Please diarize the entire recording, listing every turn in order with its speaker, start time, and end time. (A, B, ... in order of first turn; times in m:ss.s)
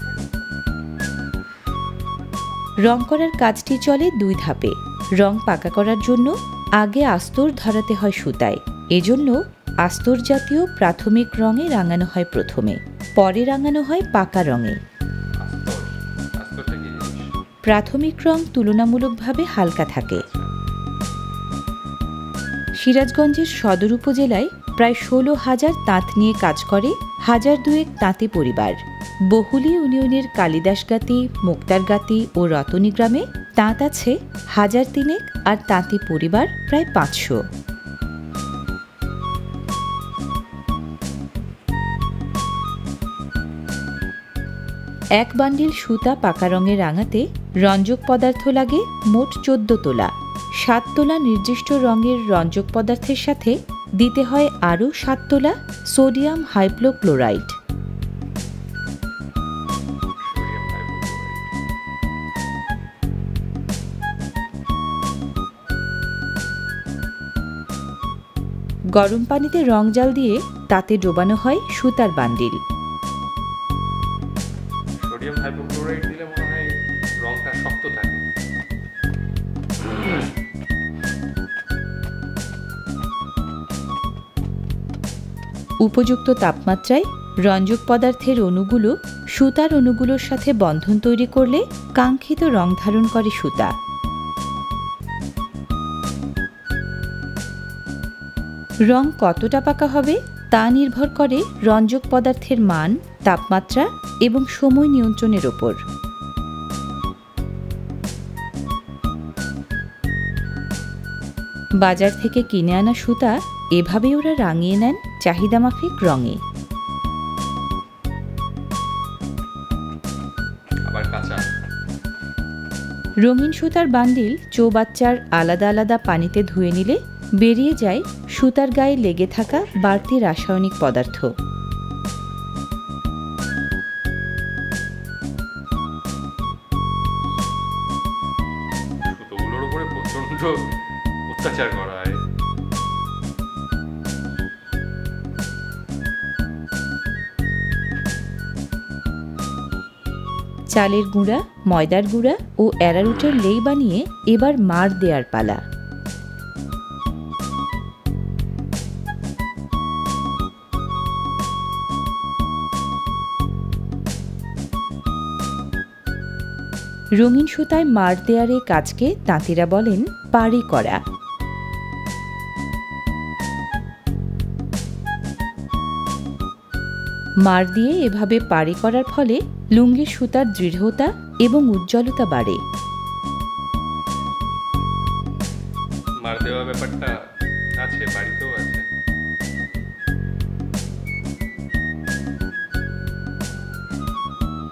0:02.8-0:14.8 A
0:15.4-0:17.3 B
0:17.6-0:20.2 A
0:20.1-0:20.5 B
0:22.8-0:28.8 A
0:29.3-0:37.4 A
0:45.2-0:50.1 A
0:50.6-0:57.5 A
1:00.2-1:01.5 B
1:08.9-1:12.6 A
1:15.0-1:18.2 B
1:19.8-1:20.3 B
1:25.8-1:33.7 A
1:38.9-1:45.8 A
1:51.8-1:56.4 A
2:00.9-2:01.4 B
2:03.2-2:11.3 A
2:09.4-2:10.1 B
2:19.0-2:20.6 B
2:21.3-2:22.2 B
2:30.8-2:35.6 A
2:47.2-2:51.0 A
2:57.4-3:02.6 A
3:06.2-3:07.1 B
3:07.8-3:08.8 B